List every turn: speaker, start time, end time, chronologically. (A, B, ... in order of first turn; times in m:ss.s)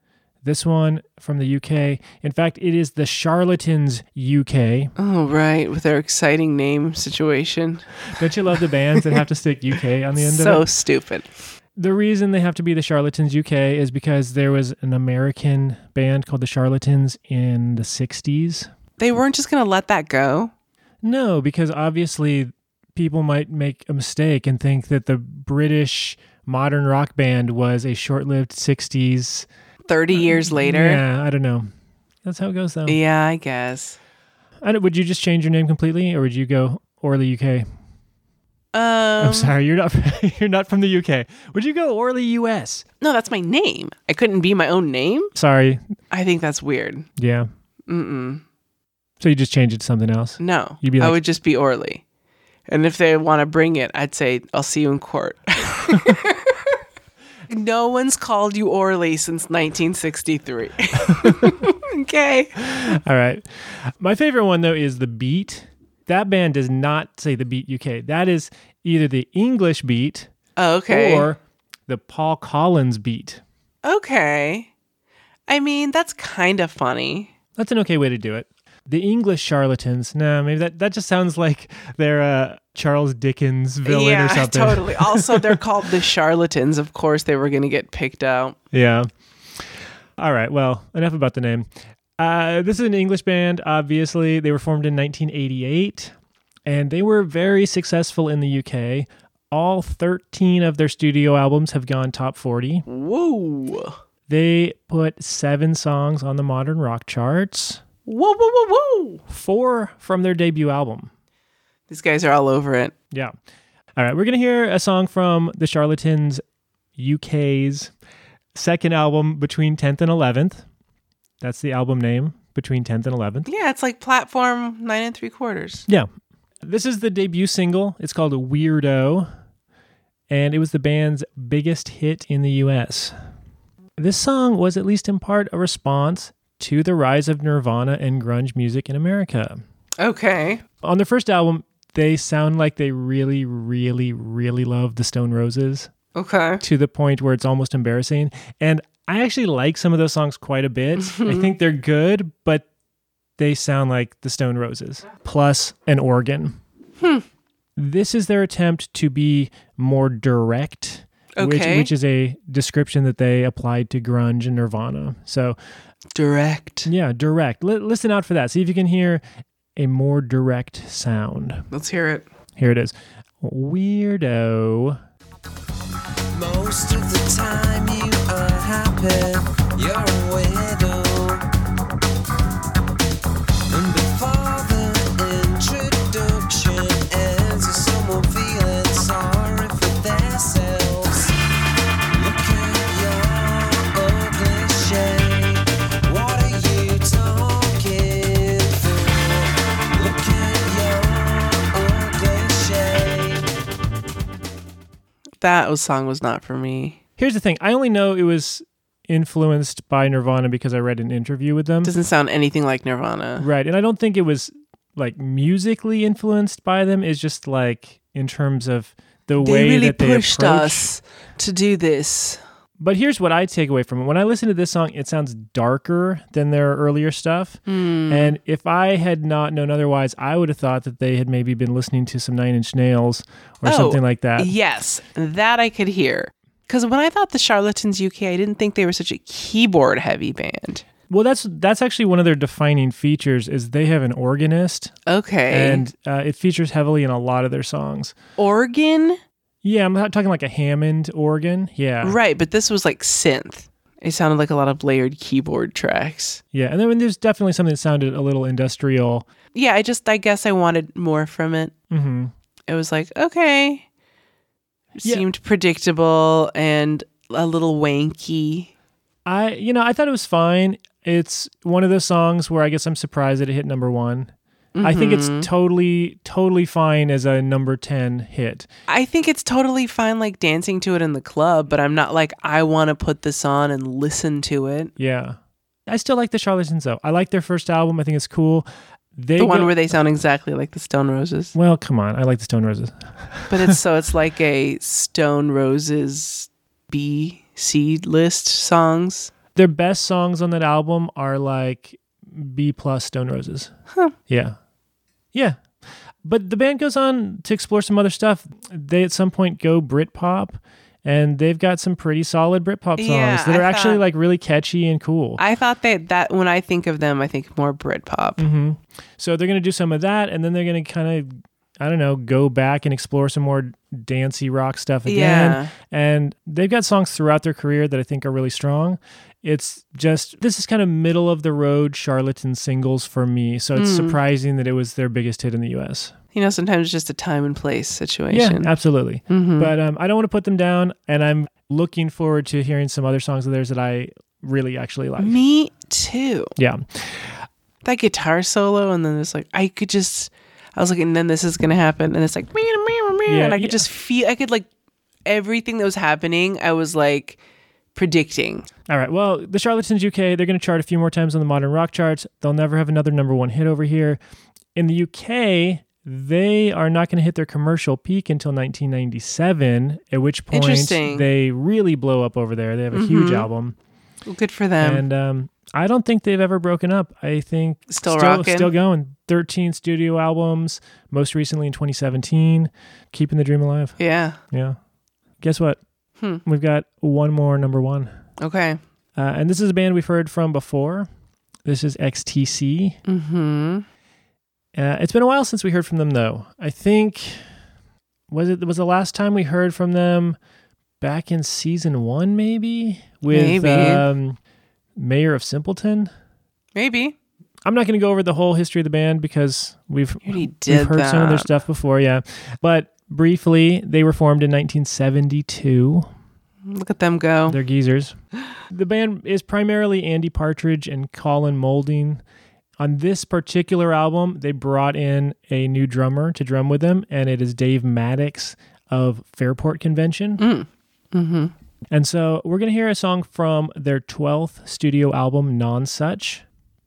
0:00.4-0:04.9 A
0:05.0-0:07.9 B
0:08.1-0:10.6 A
0:10.2-0:11.3 B
0:11.8-0:18.7 A
0:19.0-0:20.5 B
0:21.0-0:29.5 A
0:29.9-0:31.0 B
0:30.1-0:31.7 A
0:32.2-0:33.0 A
0:32.9-0:34.0 B
0:34.6-0:37.6 A
0:38.7-0:39.5 B
0:39.2-0:42.8 A
0:43.0-0:45.3 B
0:45.3-0:45.8 A
0:46.1-0:47.1 B
0:47.2-0:47.5 A
0:47.9-0:48.4 B
0:49.2-0:51.2 A
0:50.4-0:52.0 B
0:52.7-0:56.7 B
0:57.5-1:02.8 B
1:01.2-1:01.5 A
1:02.6-1:10.3 A
1:10.6-1:11.3 B
1:10.9-1:13.4 A
1:13.8-1:14.7 B
1:15.5-1:17.3 B
1:17.6-1:25.6 A
1:23.8-1:28.6 B
1:28.7-1:36.1 A
1:36.6-1:42.8 A
1:42.8-1:44.0 B
1:44.3-1:47.8 A
1:48.0-1:49.2 B
1:49.3-1:51.1 A
1:51.9-1:52.9 B
1:54.0-1:56.4 A
1:57.0-1:57.9 A
1:58.5-2:00.6 A
2:01.4-2:03.5 A
2:03.4-2:05.8 B
2:06.6-2:09.3 A
2:10.3-2:13.1 A
2:14.0-2:19.6 A
2:20.0-2:20.6 B
2:20.8-2:25.9 A
2:26.1-2:26.6 B
2:26.6-2:32.6 A
2:31.0-2:31.5 B
2:33.4-2:36.6 A
2:37.0-2:37.2 B
2:37.8-2:45.6 A
2:41.4-2:41.9 B
2:46.1-2:46.9 B
2:46.8-2:49.2 A
2:49.8-2:51.6 A
2:51.7-2:52.3 B
2:52.6-2:55.0 A
2:56.3-3:01.4 C
3:03.7-3:11.3 C
3:12.1-3:23.4 C
3:25.4-3:27.0 B
3:27.2-3:31.9 A
3:31.8-3:33.4 B
3:33.4-3:40.9 A
3:39.4-3:42.4 B
3:42.8-3:54.5 A
3:47.7-3:48.4 B
3:53.6-4:00.8 B
4:01.1-4:04.9 A
4:05.1-4:05.8 B
4:05.5-4:08.1 A
4:08.4-4:09.2 B
4:09.6-4:12.2 A
4:12.0-4:16.4 B
4:16.5-4:19.2 A
4:19.5-4:21.7 B
4:21.9-4:22.3 A
4:22.7-4:23.8 B
4:25.0-4:28.7 B
4:29.2-4:38.7 A
4:34.8-4:35.5 B
4:38.9-4:44.9 B
4:45.0-4:49.9 A
4:49.4-4:51.5 B
4:51.5-4:53.8 A
4:53.5-4:59.3 B
4:59.5-5:03.7 A
5:04.3-5:04.6 A
5:05.3-5:05.6 A
5:06.2-5:15.4 A
5:13.0-5:14.0 B
5:15.4-5:18.4 B
5:18.4-5:36.1 A
5:25.0-5:25.7 B
5:33.8-5:34.2 B
5:36.3-5:38.7 B
5:38.3-5:45.4 A
5:39.3-5:39.7 B
5:45.2-5:46.5 B
5:46.6-5:47.4 A
5:47.8-5:54.7 B
5:53.3-5:53.8 A
5:55.2-5:57.4 B
5:57.9-5:58.7 B
5:58.9-6:04.2 A
6:04.7-6:13.8 A
6:10.5-6:11.3 B
6:12.9-6:13.5 B
6:14.2-6:15.0 B
6:14.8-6:24.0 A
6:17.9-6:18.7 B
6:24.0-6:24.4 B
6:24.5-6:24.8 A
6:25.4-6:25.8 A
6:26.4-6:28.1 A
6:28.4-6:28.8 B
6:29.2-6:31.1 A
6:31.6-6:33.0 A
6:33.0-6:33.8 B
6:34.7-6:37.4 A
6:38.3-6:40.4 A
6:41.0-6:44.4 A
6:43.3-6:44.0 B
6:45.0-6:46.1 A
6:46.7-6:47.2 B
6:47.6-6:56.1 A
6:50.2-6:51.5 B
6:56.6-6:57.6 B
6:57.5-6:58.1 A
6:58.7-7:02.2 A
7:02.8-7:10.4 A
7:10.4-7:11.5 B
7:11.9-7:16.4 A